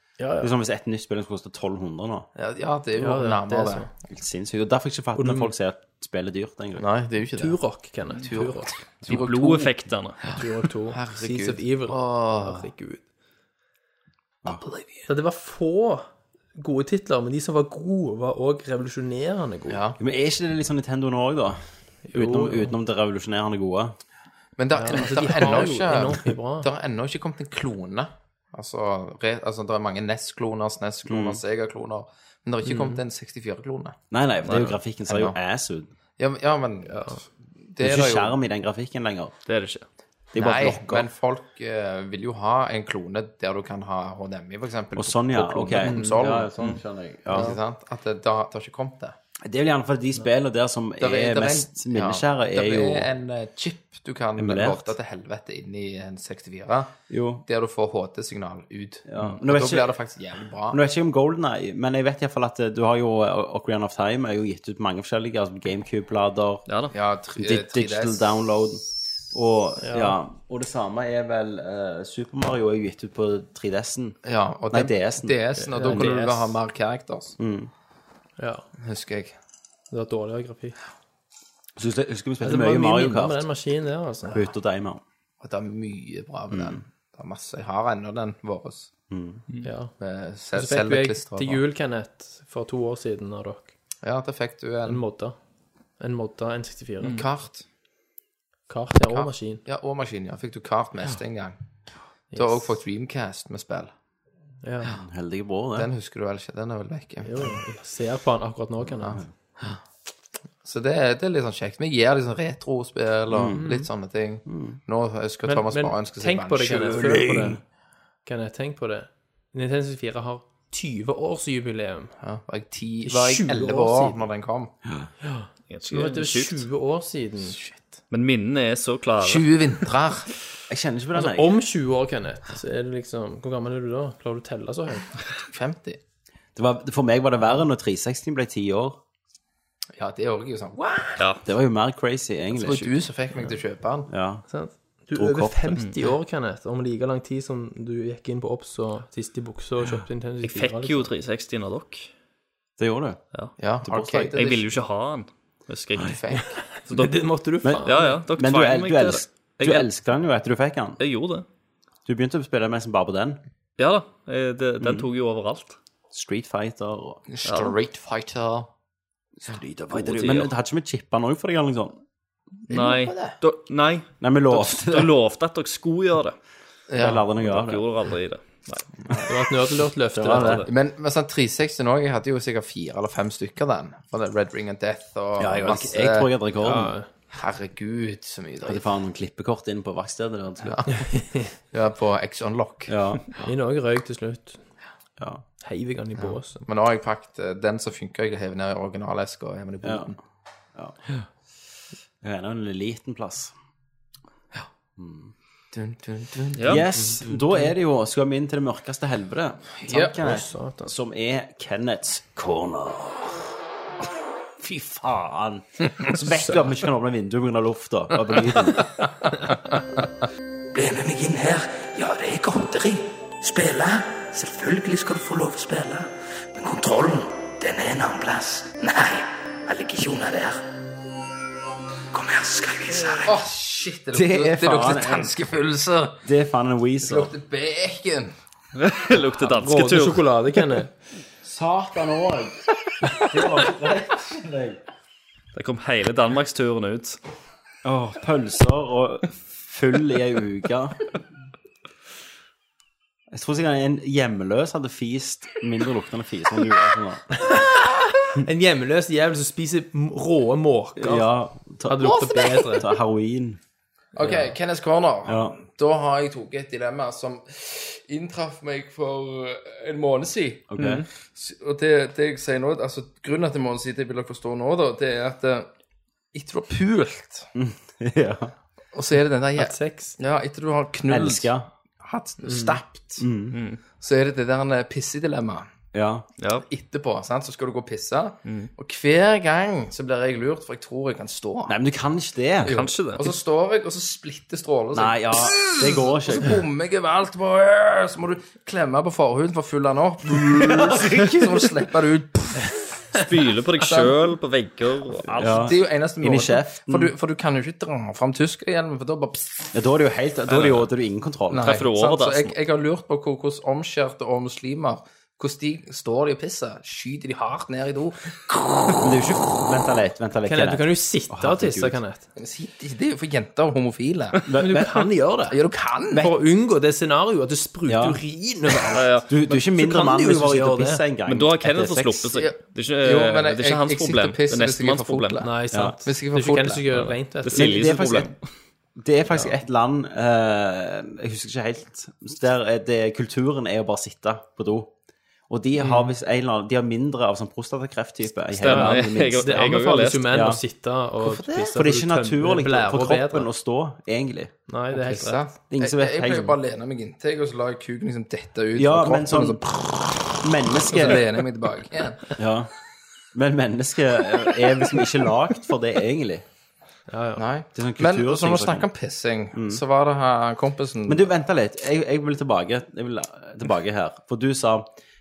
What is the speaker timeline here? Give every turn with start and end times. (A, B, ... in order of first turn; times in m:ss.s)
0:00.2-0:00.5 A
0:00.4-0:02.3 B
0:02.4-0:03.9 C
0:03.0-0:03.9 A
0:04.1-0:06.8 B
0:05.2-0:05.5 A
0:06.8-0:07.6 C
0:07.4-0:08.7 A
0:08.2-0:09.7 C
0:09.1-0:10.2 D
0:10.4-0:13.0 A
0:10.9-0:12.7 C
0:14.5-0:15.1 C
0:15.1-0:19.8 A
0:19.7-0:20.0 C
0:20.0-0:21.6 B
0:22.0-0:22.8 A
0:22.1-0:24.0 B
0:24.6-0:34.0 C
0:24.8-0:26.7 A
0:31.1-0:31.4 B
0:32.6-0:33.0 A
0:34.1-0:35.9 B
0:34.4-0:34.8 D
0:35.1-0:35.4 C
0:36.2-0:38.4 C
0:36.9-0:37.2 A
0:37.8-0:39.3 B
0:39.5-0:39.8 D
0:40.3-0:41.1 B
0:40.4-0:46.5 C
0:45.0-0:47.6 B
0:45.8-0:46.2 A
0:47.3-0:49.2 C
0:49.4-0:53.1 B
0:51.0-0:56.9 C
0:54.4-0:54.9 B
0:57.1-0:57.4 B
0:57.4-1:00.8 C
0:59.1-1:00.0 B
1:00.7-1:06.7 B
1:06.7-1:06.9 D
1:06.9-1:08.3 C
1:07.4-1:14.2 B
1:09.8-1:10.2 A
1:14.2-1:17.4 C
1:14.7-1:15.4 B
1:15.6-1:16.6 A
1:17.4-1:17.7 B
1:18.4-1:18.6 A
1:18.8-1:19.4 C
1:19.9-1:20.8 A
1:21.8-1:23.4 B
1:22.4-1:24.4 A
1:24.3-1:25.0 B
1:25.4-1:28.9 C
1:26.5-1:26.8 B
1:29.1-1:29.4 B
1:29.6-1:30.0 A
1:30.0-1:31.6 C
1:30.5-1:33.7 A
1:34.0-1:35.0 C
1:34.9-1:35.4 A
1:36.0-1:37.2 A
1:37.0-1:37.6 C
1:38.7-1:39.6 A
1:39.1-1:41.6 C
1:42.3-1:42.6 A
1:42.3-1:43.9 C
1:44.6-1:45.0 A
1:45.0-1:45.9 B
1:45.8-1:47.6 C
1:47.2-1:49.2 A
1:49.0-1:49.8 C
1:50.6-1:57.6 C
1:53.3-1:53.6 B
1:53.5-1:53.9 A
1:54.5-1:54.8 B
1:55.4-1:57.6 A
1:57.0-1:57.6 B
1:58.2-2:02.2 A
2:02.2-2:04.7 C
2:03.1-2:04.3 A
2:05.2-2:07.7 A
2:05.7-2:06.6 D
2:08.1-2:09.5 D
2:09.2-2:10.3 C
2:10.7-2:11.6 B
2:11.2-2:15.2 A
2:15.4-2:16.0 C
2:16.6-2:19.0 B
2:20.0-2:21.2 C
2:21.4-2:22.9 B
2:22.5-2:24.1 C
2:24.1-2:24.4 B
2:24.5-2:31.1 A
2:25.1-2:25.8 B
2:30.4-2:32.1 D
2:32.8-2:33.2 B
2:33.6-2:34.6 C
2:33.8-2:34.4 B
2:34.3-2:36.2 D
2:36.0-2:36.5 C
2:36.9-2:39.9 D
2:36.9-2:38.2 A
2:37.6-2:41.0 B
2:41.0-2:41.5 D
2:42.1-2:43.4 B
2:43.8-2:45.8 D
2:44.8-2:45.1 B
2:46.1-2:47.2 B
2:47.3-2:48.7 C
2:47.4-2:47.8 D
2:49.4-2:52.0 B
2:49.9-2:50.5 D
2:52.7-2:53.4 C
2:52.7-2:56.4 D
2:54.2-2:55.1 B
2:56.9-2:57.3 C
2:56.9-2:57.8 B
2:57.4-2:58.9 D
2:59.3-3:00.7 A
3:00.1-3:00.7 B
3:00.6-3:06.3 C
3:05.4-3:06.9 B
3:06.6-3:07.1 A
3:07.3-3:08.8 C
3:08.6-3:10.8 B
3:10.6-3:12.9 C
3:10.9-3:11.5 A
3:12.9-3:13.2 B
3:13.4-3:14.6 A
3:15.2-3:15.4 B
3:15.6-3:16.6 A
3:16.2-3:20.2 C
3:19.8-3:20.1 B
3:22.2-3:23.5 B
3:25.0-3:25.3 B
3:25.7-3:27.4 C
3:26.6-3:26.8 D
3:26.6-3:33.5 B
3:29.8-3:30.2 C
3:30.2-3:30.9 A
3:34.6-3:38.9 B
3:40.7-3:50.6 E
3:52.1-3:53.3 E
3:53.2-3:56.2 C
3:54.1-3:55.3 B
3:56.2-3:57.3 B
3:57.0-3:58.3 C
3:58.8-4:00.3 D
3:59.4-4:00.9 A
4:01.4-4:04.8 B
4:05.5-4:07.2 D
4:07.8-4:11.1 B
4:13.3-4:17.2 B
4:17.4-4:21.3 A
4:21.0-4:23.6 B
4:21.8-4:22.9 A
4:24.2-4:35.7 C
4:25.3-4:25.6 B
4:30.7-4:31.1 B
4:36.3-4:37.5 C
4:37.6-4:38.5 B
4:38.9-4:43.2 C
4:39.6-4:40.2 A
4:41.1-4:41.7 B
4:42.4-4:42.8 A
4:43.2-4:43.6 B
4:43.5-4:43.8 D
4:44.0-4:45.7 C
4:45.9-4:46.3 B
4:46.4-4:46.7 D
4:46.7-4:51.8 C
4:48.4-4:48.7 D
4:51.7-4:52.8 B
4:52.6-5:02.8 C
4:52.7-4:53.3 D
4:54.9-4:56.6 B
5:00.5-5:01.6 B
5:03.1-5:05.7 D
5:03.8-5:04.2 C
5:05.4-5:07.1 B
5:05.4-5:09.7 C
5:09.7-5:11.7 B
5:10.5-5:10.9 D
5:11.5-5:19.0 C
5:11.6-5:12.6 D
5:19.0-5:22.0 B
5:20.5-5:22.2 A
5:22.4-5:24.4 C
5:24.5-5:25.1 B
5:24.6-5:25.6 A
5:25.5-5:26.3 C
5:26.1-5:31.0 A
5:27.9-5:28.2 B
5:28.9-5:29.3 D
5:29.3-5:32.3 B
5:31.3-5:35.4 D
5:32.3-5:35.5 C
5:35.4-5:37.9 A
5:35.7-5:36.0 B
5:36.0-5:36.8 C
5:36.9-5:38.4 D
5:37.5-5:38.3 B
5:39.0-5:44.9 B
5:45.5-5:49.7 B
5:45.8-5:46.1 A
5:48.6-5:50.4 D
5:48.6-5:53.5 A
5:50.3-5:50.6 B
5:51.2-5:54.5 B
5:54.7-5:55.4 A
5:54.9-6:02.3 C
5:55.7-5:56.6 B
5:58.8-5:59.6 B
6:00.4-6:01.3 B
6:02.4-6:02.7 B
6:03.3-6:06.4 B
6:07.1-6:07.4 A
6:07.4-6:11.3 C
6:07.8-6:08.9 B
6:09.5-6:09.8 B
6:11.1-6:14.9 B